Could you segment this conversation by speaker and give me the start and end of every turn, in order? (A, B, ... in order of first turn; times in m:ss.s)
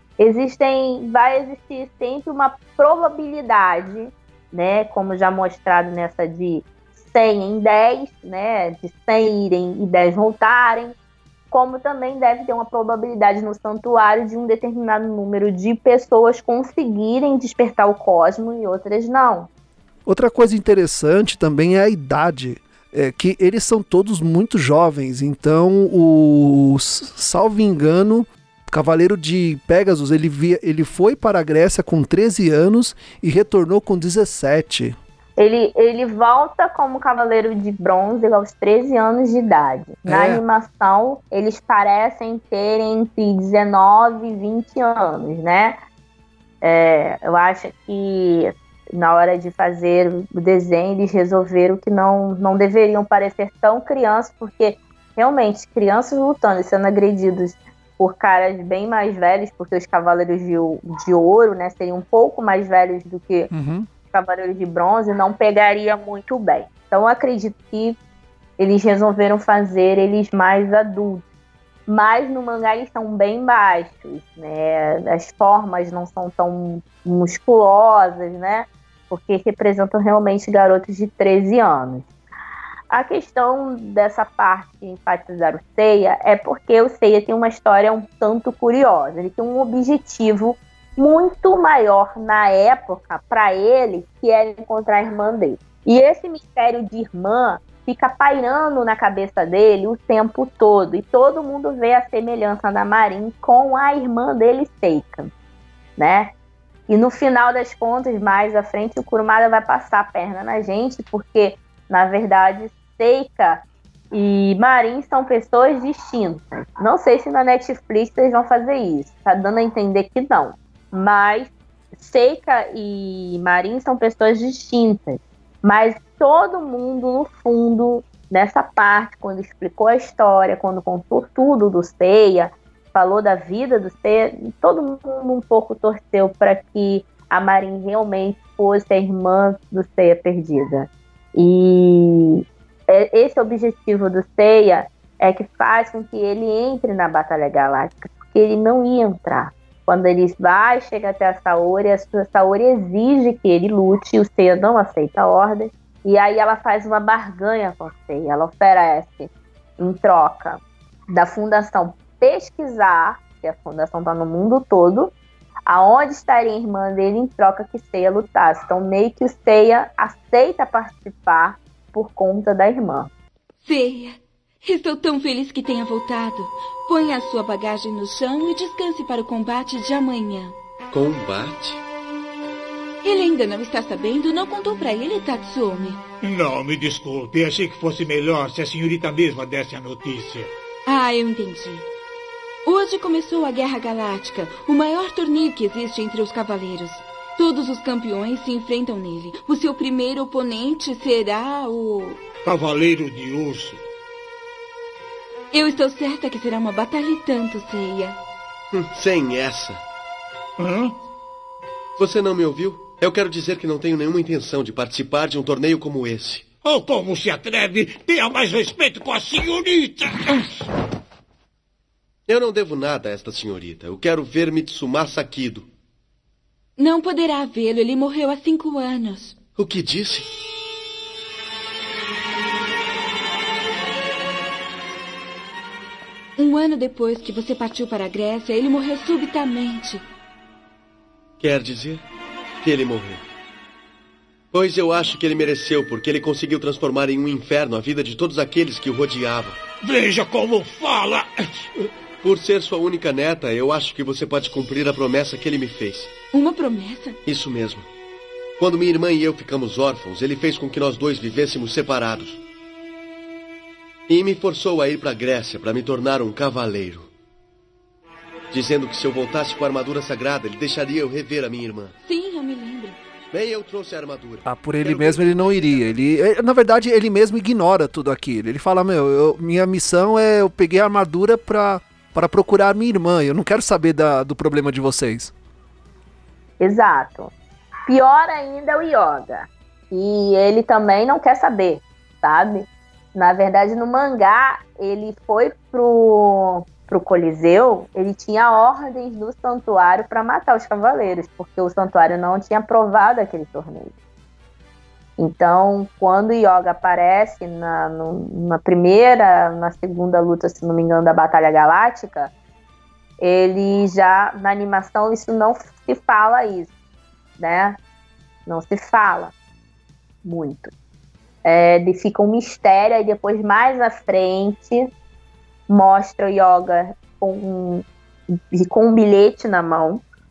0:00.2-0:11.0 A
0:11.5-0:19.5 A
0:20.1-0:35.0 B
0:35.4-0:45.8 A
0:40.1-0:40.4 B
0:46.6-1:03.5 A
1:03.5-1:03.9 B
1:04.1-1:08.0 A
1:08.6-1:11.2 A
1:11.9-1:22.1 A
1:22.9-1:45.3 A
1:46.0-1:46.3 A
1:46.9-2:45.1 A
2:45.7-2:53.1 A
2:53.6-3:00.6 C
3:00.9-3:01.8 D
3:03.0-3:06.0 C
3:06.2-3:10.5 E
3:10.9-3:11.9 C
3:12.6-3:22.2 C
3:22.4-3:23.8 E
3:25.5-3:28.2 C
3:28.7-3:29.8 D
3:30.6-3:31.0 E
3:32.0-3:36.5 D
3:36.6-3:40.5 E
3:42.3-3:45.7 D
3:46.8-3:49.4 C
3:49.6-3:50.3 D
3:56.4-4:00.0 C
4:01.4-4:02.0 D
4:02.6-4:03.2 D
4:04.5-4:09.6 D
4:09.8-4:11.7 E
4:12.2-4:16.1 D
4:16.3-4:17.2 C
4:17.3-4:17.9 D
4:18.6-4:22.4 D
4:24.1-4:27.1 D
4:28.5-4:32.0 D
4:32.0-4:33.0 C
4:33.3-4:35.5 D
4:34.4-4:45.3 B
4:46.6-4:47.3 A
4:47.9-5:03.9 A
5:05.2-5:12.3 A
5:13.2-5:16.7 A
5:17.4-5:17.8 A
5:18.5-5:19.3 A
5:20.2-5:20.7 A
5:21.4-5:24.9 A
5:25.7-5:30.0 A